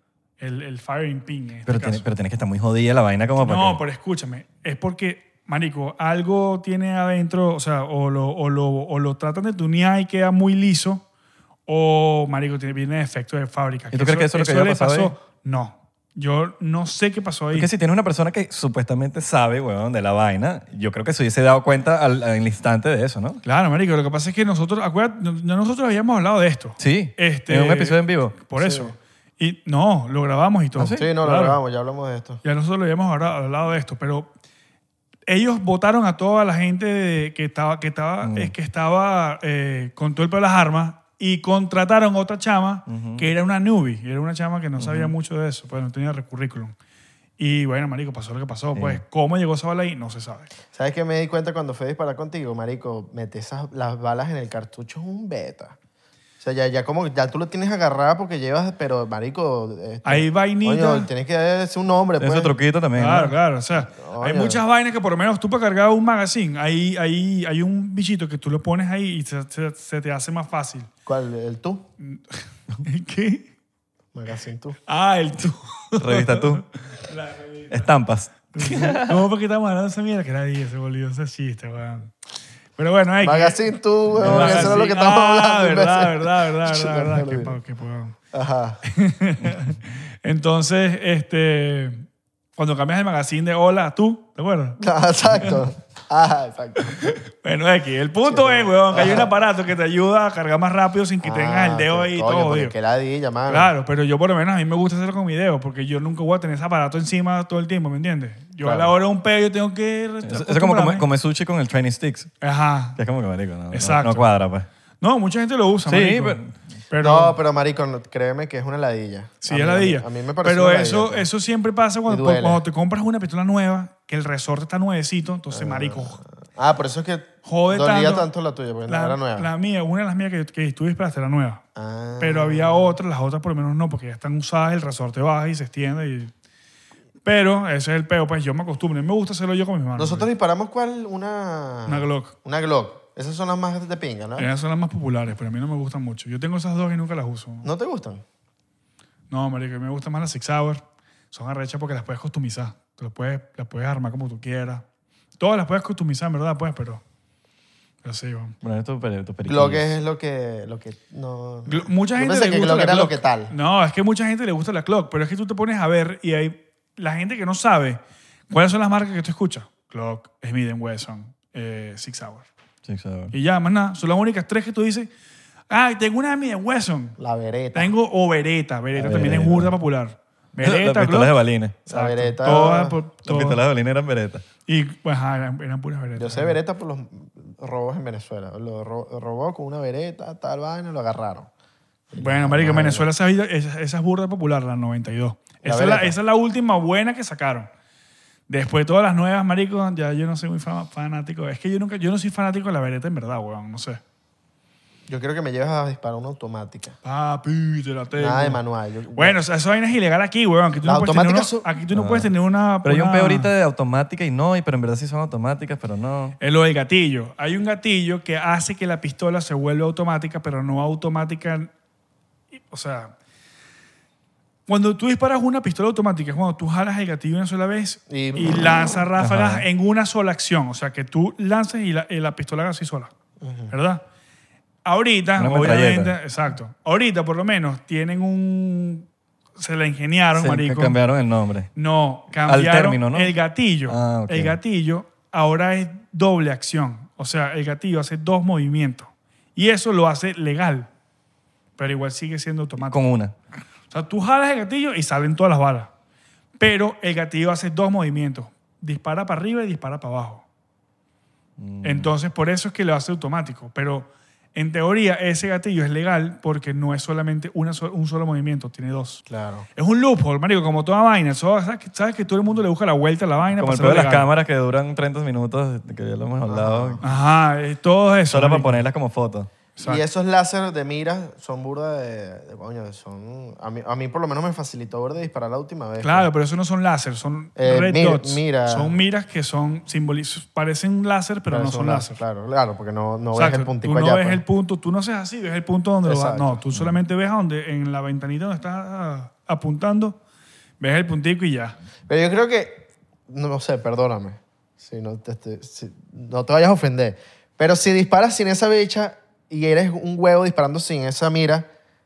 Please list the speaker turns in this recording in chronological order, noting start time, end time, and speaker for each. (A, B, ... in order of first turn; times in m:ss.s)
0:00.4-0:02.0 A
0:01.6-0:03.8 B
0:03.4-0:11.0 A
0:11.7-0:17.7 A
0:13.9-0:15.1 B
0:17.5-0:23.4 B
0:23.4-0:31.6 A
0:26.8-0:28.4 B
0:28.6-0:28.9 C
0:30.8-0:31.0 B
0:30.9-0:32.4 C
0:32.4-0:34.3 A
0:35.3-0:46.7 A
0:38.2-0:38.5 B
0:42.9-0:43.3 B
0:44.8-0:45.1 B
0:47.4-0:50.5 A
0:48.7-0:49.0 B
0:50.7-0:55.8 C
0:56.4-1:02.5 C
1:00.0-1:01.1 A
1:02.2-1:03.3 B
1:03.0-1:10.9 A
1:03.9-1:04.6 C
1:11.1-1:11.8 C
1:12.0-1:13.4 A
1:14.1-1:14.8 C
1:14.9-1:17.9 A
1:16.0-1:16.6 B
1:17.7-1:19.2 B
1:18.5-1:22.1 A
1:22.8-1:23.7 A
1:23.2-1:27.6 C
1:24.2-1:28.2 A
1:24.2-1:24.8 B
1:28.3-1:28.8 C
1:28.9-1:32.0 A
1:32.6-1:34.8 A
1:34.8-1:37.1 C
1:37.0-1:42.7 A
1:38.2-1:39.3 C
1:41.2-1:43.7 C
1:43.5-1:51.1 A
1:48.6-1:48.9 C
1:50.2-1:52.3 B
1:52.4-1:53.0 A
1:53.0-1:54.7 B
1:53.7-1:54.3 A
1:55.0-1:57.4 A
1:55.9-1:56.5 B
1:57.0-2:01.3 C
1:59.4-2:06.2 A
2:02.1-2:02.6 C
2:05.5-2:09.5 C
2:07.4-2:08.3 A
2:08.9-2:11.6 A
2:11.8-2:13.0 C
2:12.2-2:16.3 A
2:17.2-2:20.3 A
2:20.0-2:24.5 C
2:21.9-2:22.4 A
2:24.4-2:27.7 A
2:27.6-2:28.2 C
2:29.3-2:34.8 A
2:35.4-2:37.0 A
2:38.0-2:38.5 A
2:38.6-2:40.0 B
2:39.5-2:43.5 C
2:41.7-2:52.5 A
2:52.8-2:53.3 B
2:53.3-2:55.1 A
2:55.7-2:57.2 A
2:57.2-2:57.9 C
2:57.7-3:03.6 A
2:59.0-2:59.7 B
3:00.6-3:01.8 B
3:01.9-3:03.0 C
3:03.2-3:04.4 B
3:04.7-3:06.6 A
3:06.2-3:11.5 C
3:12.1-3:13.1 C
3:12.2-3:17.7 A
3:15.6-3:16.1 C
3:18.5-3:24.0 A
3:25.1-3:27.0 C
3:27.0-3:28.6 A
3:28.2-3:29.4 C
3:29.1-3:33.5 A
3:30.8-3:31.7 C
3:31.9-3:32.3 B
3:32.8-3:36.4 B
3:36.4-3:41.7 A
3:42.7-3:43.1 A
3:44.7-3:53.1 A
3:48.1-3:49.0 C
3:49.2-3:49.6 B
3:53.4-3:53.7 C
3:53.7-3:54.0 A
3:54.8-4:01.0 A
3:55.4-3:56.2 B
4:00.3-4:01.7 B
4:01.7-4:10.9 A
4:02.4-4:03.3 B
4:03.9-4:04.6 B
4:11.8-4:13.0 A
4:12.8-4:13.3 B
4:13.9-4:15.9 A
4:16.6-4:20.4 A
4:21.6-4:22.1 B
4:21.8-4:29.2 A
4:29.3-4:29.7 C
4:29.7-4:34.3 A
4:33.5-4:37.0 B
4:36.5-4:37.0 C
4:37.0-4:38.8 A
4:38.3-4:39.5 B
4:39.8-4:40.0 A
4:39.8-4:46.3 C
4:46.0-4:52.2 A
4:47.6-4:49.0 C
4:51.5-4:54.4 C
4:53.3-5:00.2 A
4:56.0-4:56.6 C
5:00.8-5:01.8 A
5:02.1-5:11.7 C